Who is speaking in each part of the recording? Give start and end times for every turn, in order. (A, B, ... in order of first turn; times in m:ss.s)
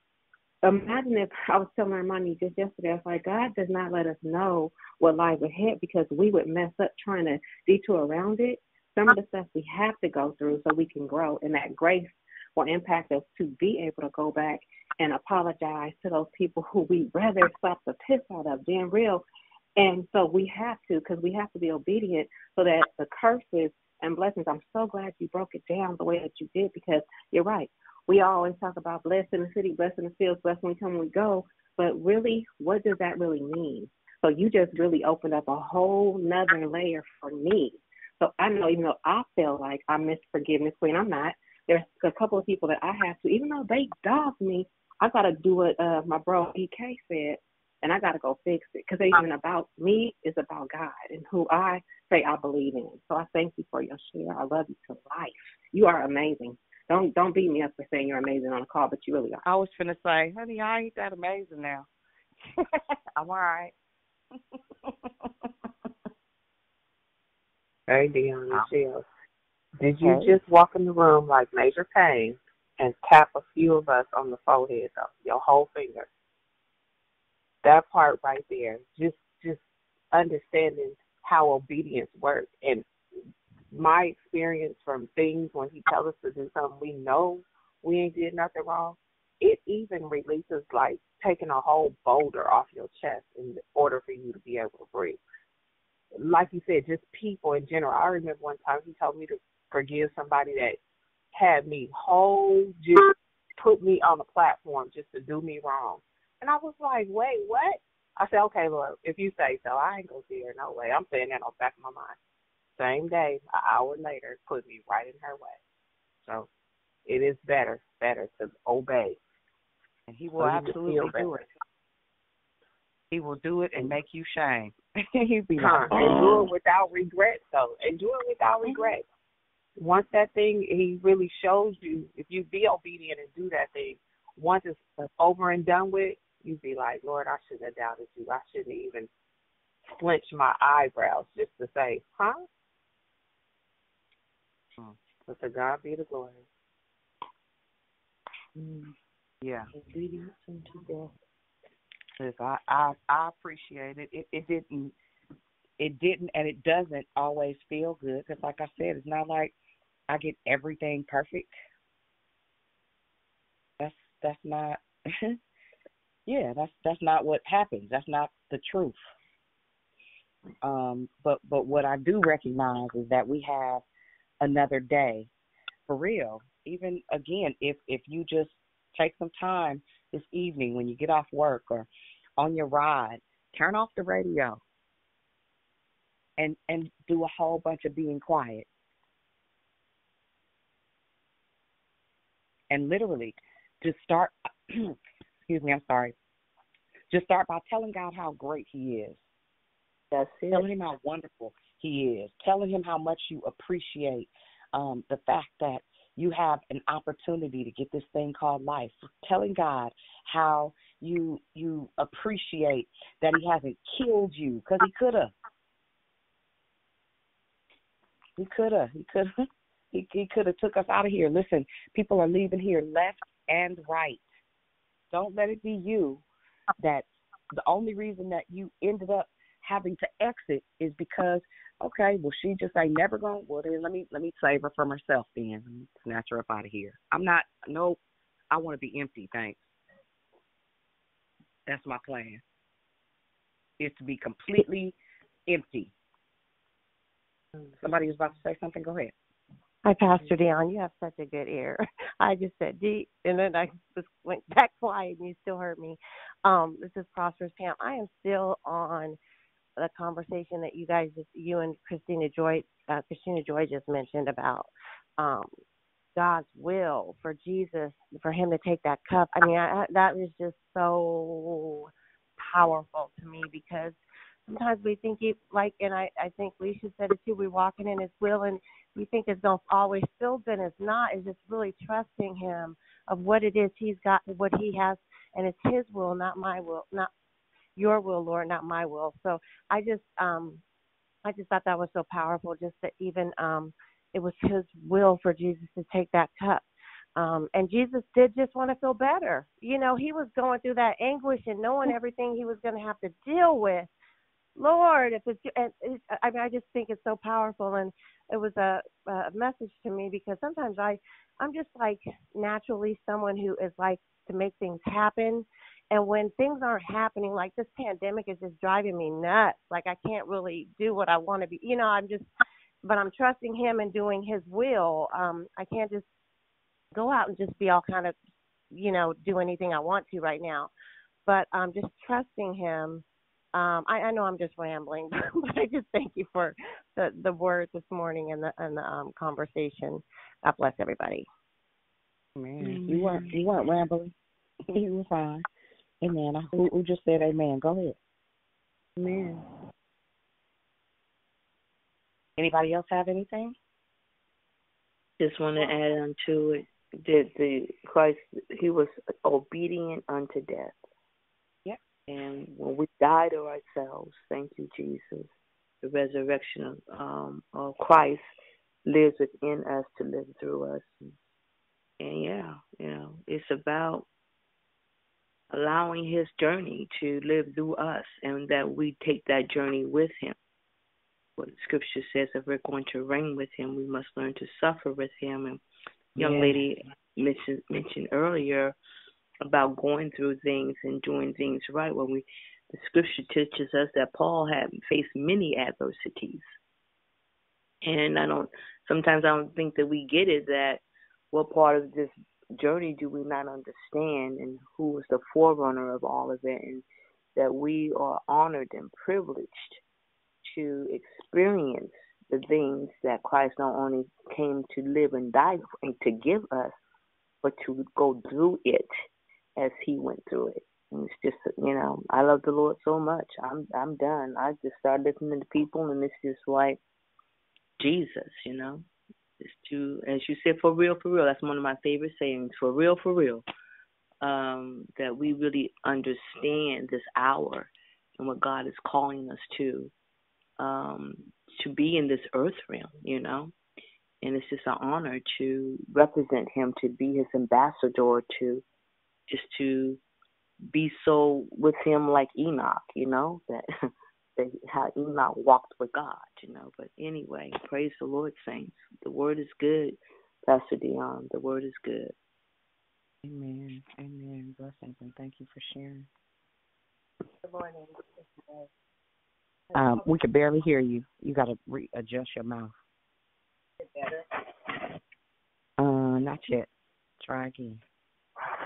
0:00.6-0:19.2 A
0:19.8-0:59.4 A
0:59.4-1:01.9 B
1:03.2-1:03.7 B
1:04.4-1:05.5 B
1:07.9-1:09.0 C
1:09.8-1:16.1 C
1:10.0-1:10.4 B
1:17.6-1:19.6 C
1:20.1-1:22.8 C
1:23.7-1:35.2 C
1:36.1-1:40.8 C
1:41.3-1:52.2 C
1:52.8-1:55.6 C
1:57.1-1:59.2 C
2:00.1-2:01.5 B
2:00.4-2:01.4 C
2:03.1-2:06.5 B
2:05.6-2:09.0 C
2:09.8-2:19.1 C
2:19.9-2:22.5 C
2:25.2-2:26.5 C
2:29.4-2:29.7 B
2:29.7-2:30.4 C
2:32.2-2:35.0 B
2:35.8-2:39.5 B
2:40.1-2:41.5 B
2:43.8-2:45.3 B
2:46.3-2:49.0 B
2:50.6-2:53.8 B
2:54.4-2:55.3 B
2:55.9-3:04.6 B
3:06.4-3:08.7 B
3:12.7-3:14.9 B
3:15.5-3:16.1 B
3:17.1-3:19.2 B
3:20.5-3:35.3 B
3:38.4-3:39.3 B
3:39.9-3:44.3 B
3:45.1-3:46.2 B
3:46.8-3:47.1 B
3:47.6-3:58.0 B
3:58.5-3:59.7 B
4:01.7-4:02.4 B
4:03.8-4:05.0 B
4:05.5-4:05.9 B
4:07.8-4:09.1 B
4:09.8-4:19.2 D
4:19.8-4:25.5 D
4:26.2-4:47.1 D
4:47.8-4:50.6 D
4:51.2-4:56.6 D
4:57.2-5:03.9 D
5:04.6-5:22.3 D
5:22.8-5:26.0 D
5:26.9-5:28.2 D
5:28.7-5:30.7 D
5:31.3-5:41.3 D
5:42.4-5:44.1 B
5:44.7-5:45.5 B
5:46.0-5:48.0 B
5:52.4-5:53.6 B
5:55.2-6:00.8 E
6:02.1-6:08.3 E
6:08.9-6:11.2 E
6:12.0-6:14.1 E
6:15.5-6:20.4 E
6:21.4-6:25.6 E
6:26.2-6:28.8 E
6:26.2-6:26.6 B
6:29.4-6:36.5 E
6:37.8-6:49.8 E
6:50.4-6:56.8 E
6:57.4-6:58.9 E
6:59.6-7:06.8 E
7:07.8-7:08.9 E
7:09.4-7:13.4 E
7:14.2-7:19.9 E
7:20.6-7:23.6 E
7:24.2-7:28.6 E
7:29.3-7:30.0 E
7:30.7-7:33.6 E
7:34.4-7:42.1 E
7:43.2-7:46.1 B
7:49.8-7:52.7 B
7:55.8-7:56.7 B
7:57.2-7:57.8 B